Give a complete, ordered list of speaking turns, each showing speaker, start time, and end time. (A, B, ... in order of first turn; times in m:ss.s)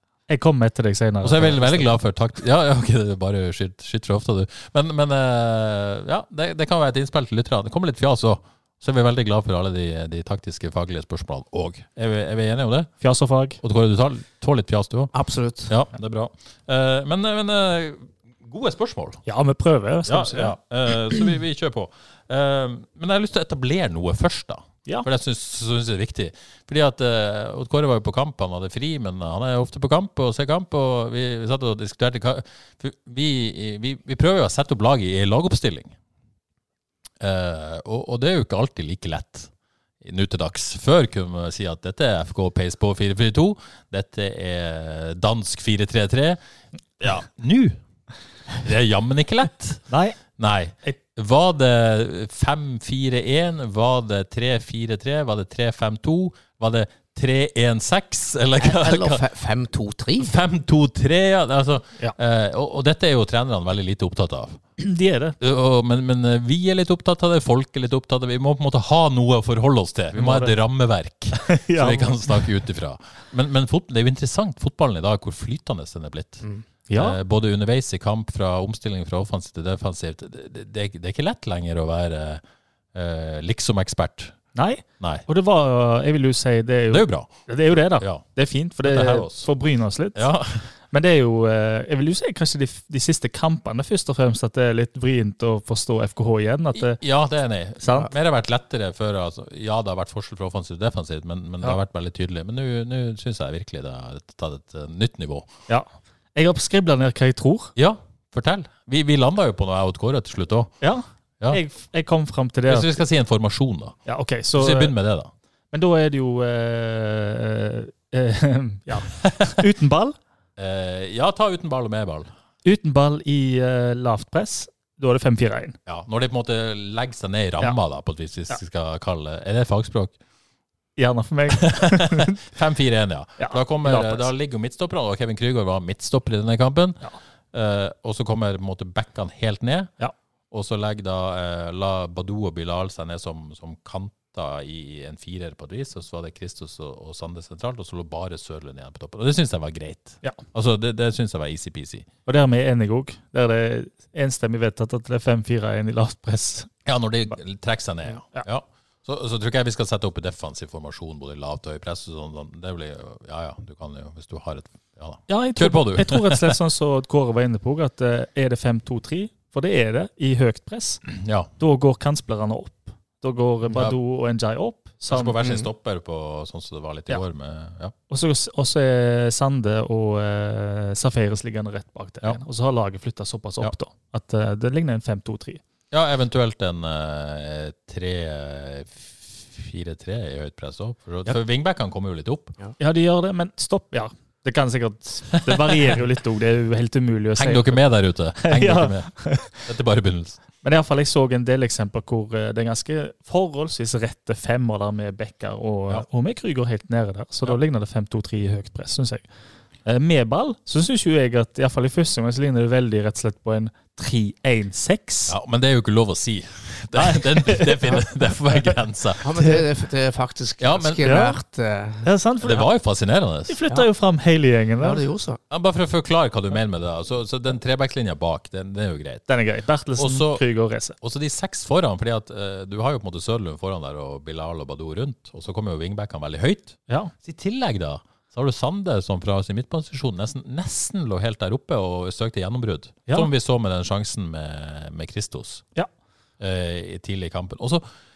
0:00.3-0:01.9 A
0:01.2-0:12.9 B
0:13.0-0:13.6 A
0:13.6-0:15.1 B
0:15.1-0:15.7 C
0:15.7-0:19.2 B
0:19.3-0:20.5 A
0:20.0-0:36.0 B
0:37.2-0:39.5 B
0:40.0-0:46.4 B
0:47.0-0:47.8 B
0:48.6-0:59.2 B
0:49.9-0:50.2 A
0:58.6-1:00.3 C
1:00.2-1:04.6 B
1:04.8-1:05.4 A
1:05.4-1:22.4 B
1:10.1-1:10.6 A
1:11.4-1:12.4 A
1:16.9-1:17.2 A
1:22.9-1:24.4 B
1:24.6-1:30.3 A
1:25.0-1:25.2 B
1:26.9-1:28.2 B
1:28.8-1:29.5 B
1:30.2-1:30.7 B
1:30.9-1:37.0 A
1:36.7-1:45.5 B
1:37.8-1:38.1 A
1:45.7-1:47.7 A
1:47.8-1:50.7 B
1:50.8-1:52.9 A
1:52.7-1:54.0 B
1:54.1-1:55.0 A
1:54.5-1:55.3 B
1:55.7-2:00.2 A
1:59.2-1:59.5 B
2:00.6-2:02.3 B
2:02.6-2:05.8 A
2:05.9-2:10.2 B
2:11.0-2:12.4 A
2:11.5-2:19.9 B
2:13.4-2:14.3 A
2:20.5-2:32.1 B
2:32.3-2:36.7 A
2:36.8-2:46.6 B
2:45.3-2:51.0 A
2:51.1-2:51.5 B
2:51.6-2:55.4 A
2:53.7-2:54.0 B
2:55.1-2:57.9 B
2:58.1-3:05.6 A
3:05.9-3:12.6 B
3:12.8-3:17.8 A
3:15.5-3:16.0 B
3:17.4-3:20.4 B
3:18.4-3:19.6 A
3:20.6-3:29.3 A
3:29.9-3:35.3 A
3:35.3-3:39.3 B
3:37.0-3:38.0 A
3:39.2-3:42.1 C
3:40.6-3:41.1 B
3:41.0-3:41.4 A
3:42.0-3:42.7 A
3:42.4-3:43.6 B
3:43.5-3:45.0 A
3:44.8-3:45.4 C
3:45.5-3:49.3 B
3:49.3-3:51.0 A
3:50.0-3:50.4 B
3:51.0-4:05.6 B
4:06.4-4:07.9 B